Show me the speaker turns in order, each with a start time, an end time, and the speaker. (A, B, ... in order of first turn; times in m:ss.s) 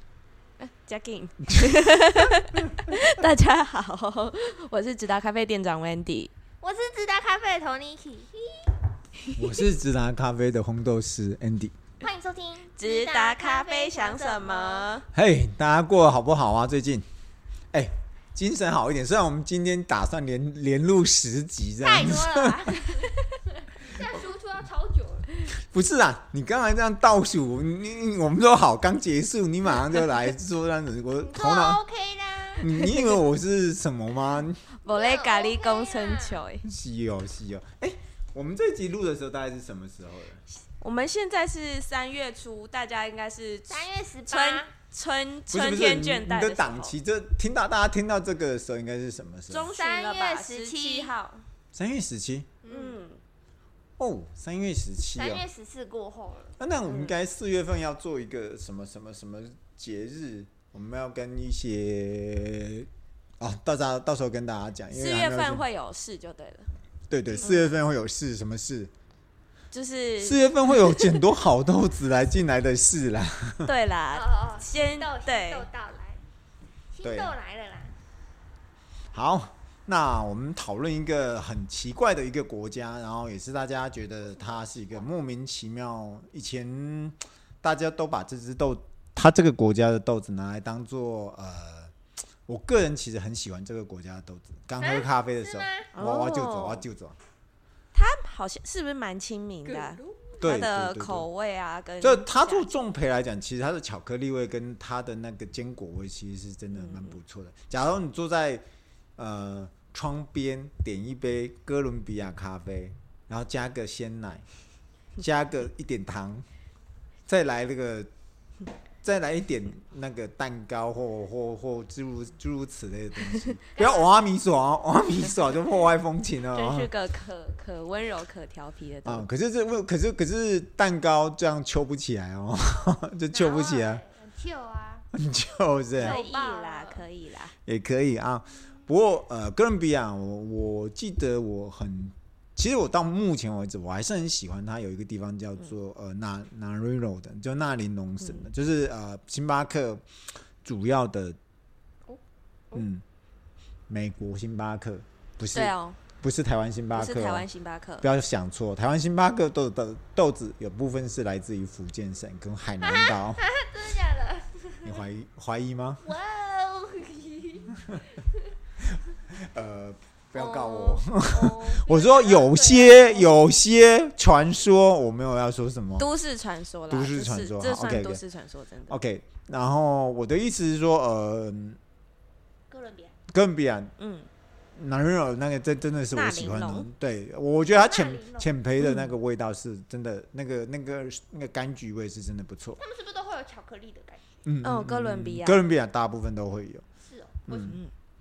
0:00.6-0:06.3 A
0:01.5-0:01.8 B
0:06.6-0:08.7 C
0:09.4-0:11.7 B
0:09.4-0:09.7 C
0:12.0-0:15.0 C
0:12.7-0:15.1 A
0:15.1-0:17.0 B
0:17.7-0:22.7 B
0:21.8-0:25.3 C
0:25.6-0:31.8 B
0:31.2-0:32.7 C
0:32.6-0:34.6 B
0:34.8-0:36.7 A
0:34.9-0:36.4 C
0:36.6-0:40.4 B
0:40.7-0:47.0 A
0:43.7-0:44.7 C
0:45.5-0:49.7 B
0:49.5-0:51.5 A
0:49.7-0:51.1 C
0:51.7-0:52.5 B
0:52.6-0:53.0 C
0:52.7-0:53.2 A
0:54.0-0:55.5 B
0:55.1-0:56.6 C
0:56.6-1:02.9 B
0:56.9-0:57.2 A
1:03.4-1:05.7 B
1:04.9-1:06.7 A
1:07.1-1:08.9 B
1:07.3-1:07.7 C
1:07.4-1:07.7 A
1:09.7-1:11.3 A
1:10.2-1:13.7 B
1:13.6-1:15.7 A
1:14.1-1:16.2 C
1:16.9-1:18.0 C
1:17.0-1:17.4 B
1:19.1-1:31.9 B
1:32.5-1:37.2 B
1:34.8-1:36.0 C
1:35.9-1:36.9 A
1:37.9-1:42.7 A
1:39.6-1:40.3 C
1:40.4-1:41.3 B
1:42.0-1:48.6 B
1:46.7-1:47.2 A
1:49.2-1:54.4 B
1:55.2-1:56.4 B
1:57.3-1:58.1 B
1:59.0-2:06.9 B
2:03.8-2:04.2 C
2:06.5-2:09.3 A
2:09.0-2:14.0 B
2:13.3-2:15.1 C
2:15.1-2:16.2 B
2:16.0-2:17.5 A
2:16.0-2:17.0 C
2:17.7-2:30.0 B
2:30.6-2:31.4 B
2:32.7-2:33.0 B
2:33.9-2:37.5 B
2:35.5-2:36.0 A
2:36.9-2:38.1 A
2:38.0-2:43.4 B
2:42.8-2:45.0 C
2:44.8-2:46.0 B
2:46.0-2:48.2 C
2:49.3-2:56.1 B
2:50.4-2:50.6 C
2:50.5-2:51.0 A
2:51.2-2:53.3 C
2:56.0-2:59.0 A
2:56.9-2:58.2 B
2:58.9-3:01.8 B
3:02.7-3:03.2 C
3:03.3-3:03.9 B
3:04.0-3:04.3 A
3:04.8-3:12.8 B
3:06.1-3:06.9 A
3:07.6-3:08.5 C
3:08.8-3:09.1 A
3:12.8-3:14.2 C
3:14.4-3:16.8 B
3:14.6-3:15.6 A
3:17.0-3:17.8 C
3:17.5-3:17.8 B
3:17.6-3:17.9 A